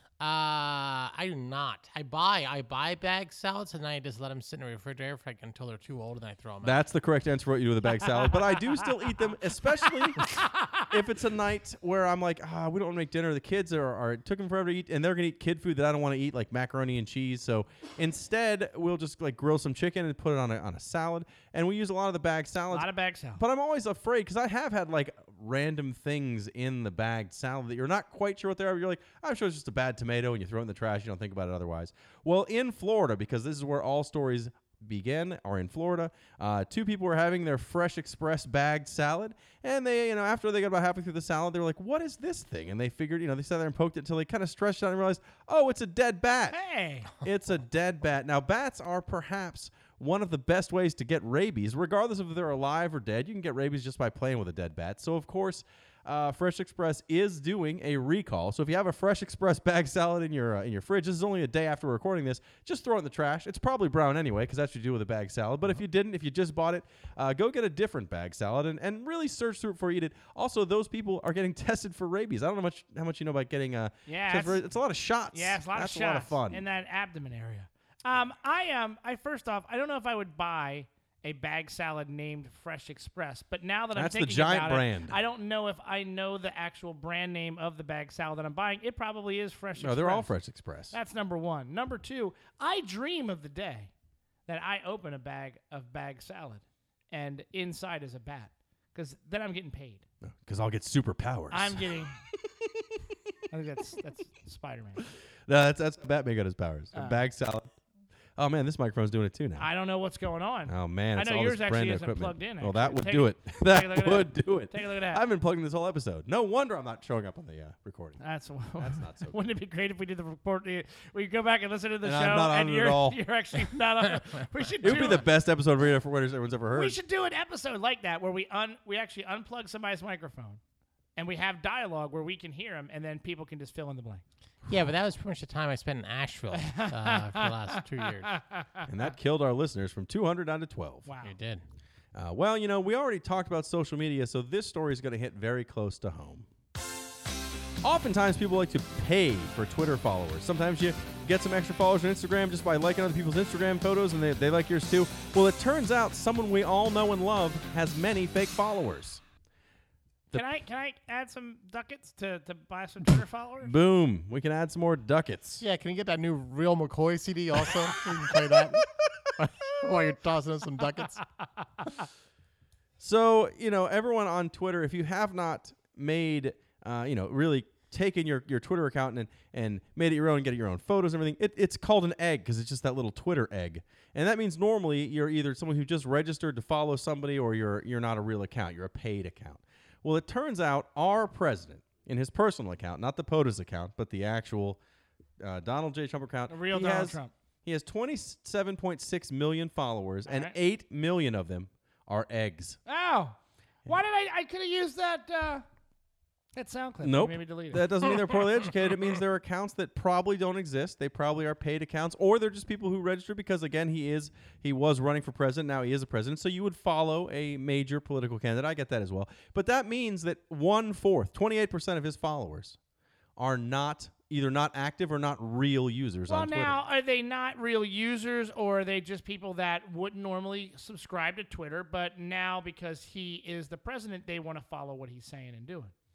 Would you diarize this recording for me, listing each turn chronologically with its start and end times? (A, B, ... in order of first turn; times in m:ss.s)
0:00.2-0:06.8 A
0:06.6-0:10.3 B
0:10.2-0:10.8 C
0:10.9-0:46.6 B
0:22.7-0:23.4 C
0:46.5-0:47.1 C
0:47.1-1:16.6 B
1:14.0-1:14.6 C
1:15.3-1:30.3 C
1:23.9-1:25.2 B
1:29.8-1:30.9 B
1:30.9-1:33.9 C
1:34.5-1:40.0 C
1:40.2-1:41.8 B
1:41.5-1:42.2 C
1:43.5-1:45.0 C
1:45.5-1:47.7 B
1:46.9-1:47.2 C
1:48.4-1:49.7 B
1:49.6-1:55.2 C
1:50.7-1:58.2 B
1:58.2-2:05.3 C
1:58.8-1:59.4 B
2:02.0-2:03.2 B
2:04.8-2:07.0 B
2:06.7-2:10.6 C
2:11.2-2:14.2 C
2:14.7-2:18.4 A
2:16.5-2:18.9 C
2:18.9-2:21.1 B
2:21.0-2:21.3 C
2:21.2-2:21.6 A
2:22.1-2:26.5 B
2:27.8-2:39.2 B
2:40.3-2:43.7 C
2:43.6-2:45.6 B
2:45.6-2:51.2 A
2:53.0-3:14.8 B
3:15.4-3:22.8 B
3:16.5-3:17.3 C
3:20.3-3:20.5 C
3:22.8-3:25.6 C
3:26.6-3:28.0 C
3:27.0-3:42.8 B
3:43.4-3:46.8 B
3:46.3-3:55.9 C